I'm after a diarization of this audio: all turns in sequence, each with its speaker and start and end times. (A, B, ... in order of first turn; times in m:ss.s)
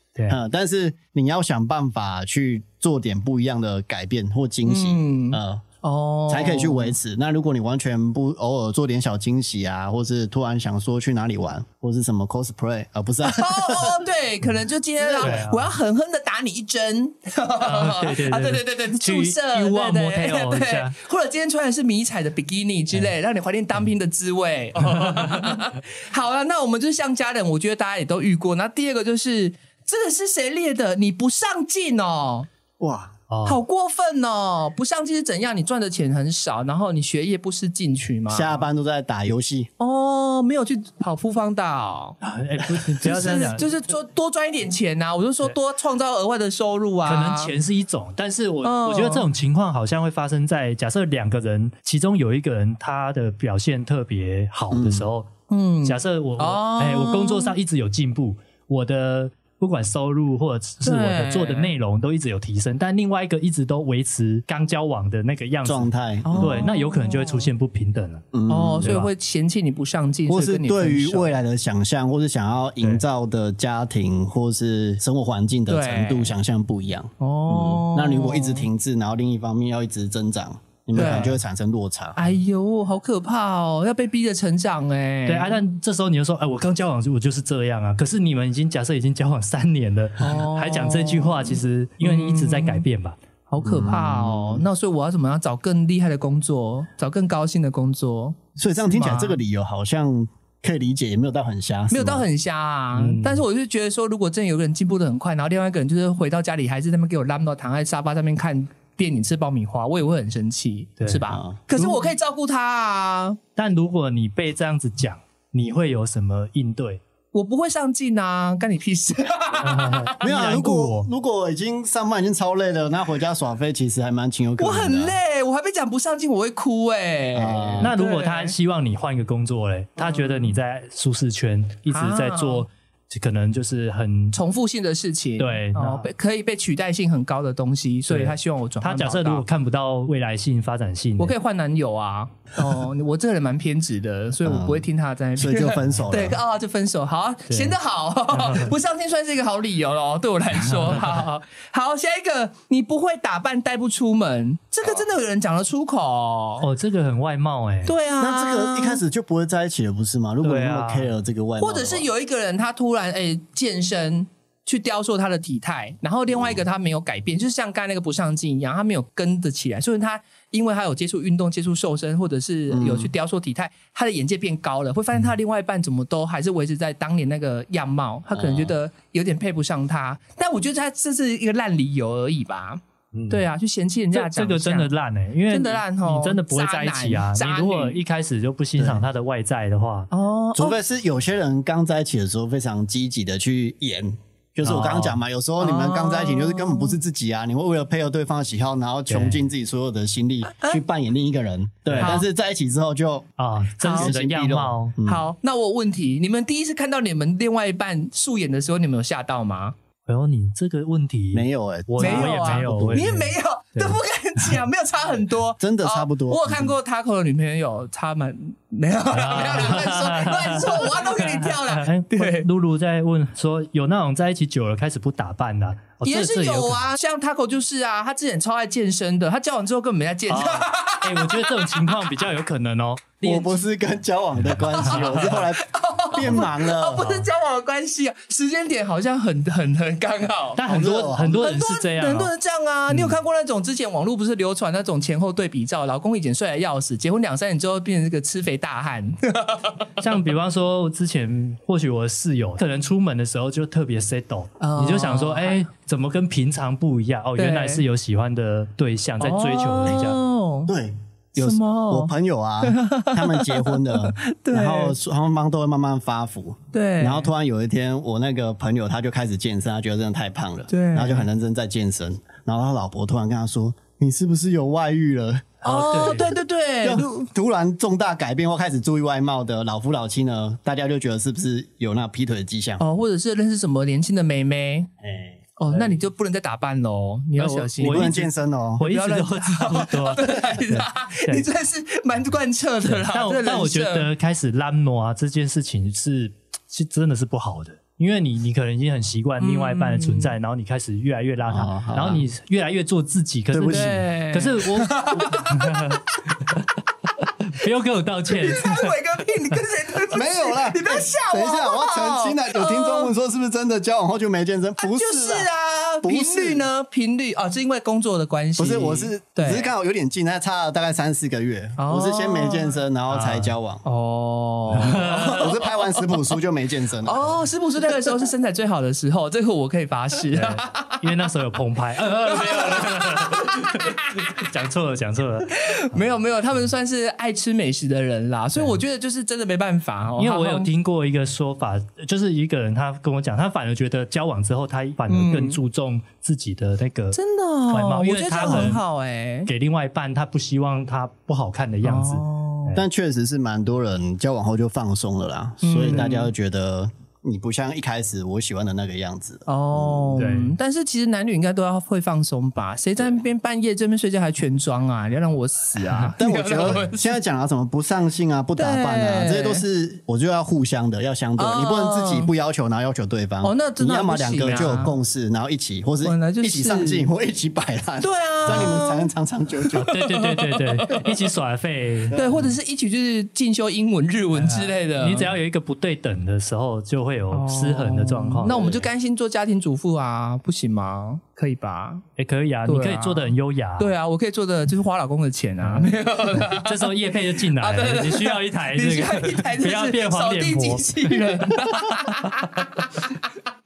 0:00.3-0:05.6 A
0:04.6-0:06.9 B
0:06.3-0:14.0 A
0:13.2-0:32.5 B
0:15.0-0:15.4 A
0:15.2-0:15.7 C
0:17.6-0:20.9 C
0:24.8-0:25.6 C
0:32.8-0:33.1 A
0:33.3-0:33.6 C
0:33.4-0:38.6 B
0:38.3-0:39.7 A
0:39.8-0:42.2 B
0:42.2-0:43.7 C
0:43.0-0:47.5 B
0:47.0-0:55.3 C
0:48.6-0:49.2 B
0:54.7-0:55.1 A
0:55.5-0:57.5 B
0:55.8-1:09.1 C
1:00.8-1:01.7 B
1:05.6-1:06.6 A
1:06.2-1:07.4 B
1:08.3-1:09.0 A
1:08.5-1:11.3 B
1:10.3-1:22.3 A
1:15.7-1:16.3 B
1:17.2-1:18.6 B
1:20.9-1:21.4 B
1:21.0-1:21.3 C
1:22.2-1:25.6 B
1:25.3-1:33.2 C
1:30.2-1:32.9 B
1:33.5-1:39.4 B
1:33.6-1:34.7 A
1:38.6-1:42.2 A
1:41.9-1:53.4 B
1:42.9-1:43.4 C
1:51.0-1:51.2 C
1:51.3-1:52.1 A
1:53.6-1:57.0 C
1:57.3-2:00.2 B
1:59.6-2:01.1 C
2:00.2-2:05.1 A
2:04.6-2:08.5 B
2:07.3-2:07.9 A
2:07.8-2:14.4 C
2:10.0-2:10.5 B
2:11.9-2:12.6 B
2:14.3-2:19.4 B
2:15.4-2:16.1 C
2:18.1-2:21.3 C
2:21.2-2:36.6 B
2:24.4-2:26.4 A
2:27.5-2:27.7 C
2:28.3-2:28.7 C
2:30.6-2:31.2 C
2:36.6-2:37.9 C
2:37.8-2:39.0 B
2:38.2-2:42.1 A
2:40.4-2:41.1 C
2:41.6-3:04.9 B
2:46.3-2:46.6 A
2:52.7-2:53.1 A
2:58.3-2:58.7 A
3:03.1-3:03.4 C
3:04.1-3:10.1 C
3:05.5-3:08.0 B
3:08.8-3:09.0 A
3:10.1-3:10.8 B
3:10.5-3:23.3 A
3:14.6-3:15.2 C
3:15.6-3:17.0 B
3:19.1-3:19.4 C
3:21.9-3:22.2 C
3:22.0-3:22.2 B
3:23.4-3:24.9 C
3:23.8-3:24.1 B
3:23.8-3:25.2 A
3:25.0-3:29.7 B
3:30.0-3:34.6 C
3:31.3-3:33.1 A
3:32.0-3:42.5 B
3:35.6-3:36.7 A
3:39.1-3:46.8 C
3:46.0-3:51.9 B
3:50.3-3:53.5 C
3:53.2-3:57.3 A
3:54.7-4:00.6 B
3:54.9-3:55.4 C
4:00.6-4:02.3 C
4:00.6-4:01.5 A
4:01.3-4:09.9 B
4:02.9-4:03.1 C
4:10.0-4:20.2 C
4:14.6-4:15.6 B
4:17.4-4:17.8 B
4:19.2-4:20.7 B
4:20.7-4:42.8 A
4:21.4-4:25.0 B
4:26.7-4:27.3 B
4:30.7-4:31.2 B
4:35.6-4:37.3 B
4:35.6-4:36.3 C
4:42.8-4:44.9 B
4:45.0-4:45.9 A
4:45.6-4:54.1 B
4:47.4-4:48.2 C
4:47.8-4:48.8 A
4:48.8-4:51.5 C
4:52.8-5:06.6 C
4:59.4-5:00.3 B
5:01.5-5:02.2 A
5:03.5-5:04.0 A
5:03.6-5:06.2 B
5:07.2-5:09.0 C
5:08.3-5:13.1 B
5:10.1-5:15.5 A
5:14.8-5:19.7 B
5:16.0-5:16.7 A
5:18.6-5:23.8 A
5:21.8-5:22.7 B
5:23.1-5:23.5 C
5:23.8-5:26.1 B
5:24.7-5:25.5 C
5:24.8-5:27.4 A
5:27.0-5:31.0 B
5:30.3-5:36.0 C
5:32.3-5:34.4 B
5:35.5-5:40.7 B
5:40.2-5:47.2 C
5:45.1-5:45.6 B
5:47.1-5:49.5 B
5:47.7-5:48.8 C
5:49.4-5:52.8 C
5:51.8-5:52.8 B
5:52.7-6:00.2 A
5:55.6-5:56.3 B
5:59.5-6:07.1 B
6:00.2-6:00.6 C
6:06.2-6:19.9 A
6:08.6-6:09.6 B
6:11.4-6:12.3 B
6:13.4-6:14.9 B
6:16.0-6:17.1 B
6:18.0-6:19.1 B
6:18.5-6:18.7 C
6:19.7-6:22.4 C
6:19.9-6:21.0 B
6:22.1-6:22.4 A
6:22.1-6:25.3 B
6:24.4-6:28.8 C
6:27.3-6:32.0 B
6:28.4-6:28.9 A
6:32.2-6:33.9 C
6:32.6-6:36.9 B
6:35.6-6:42.2 C
6:37.5-6:43.2 B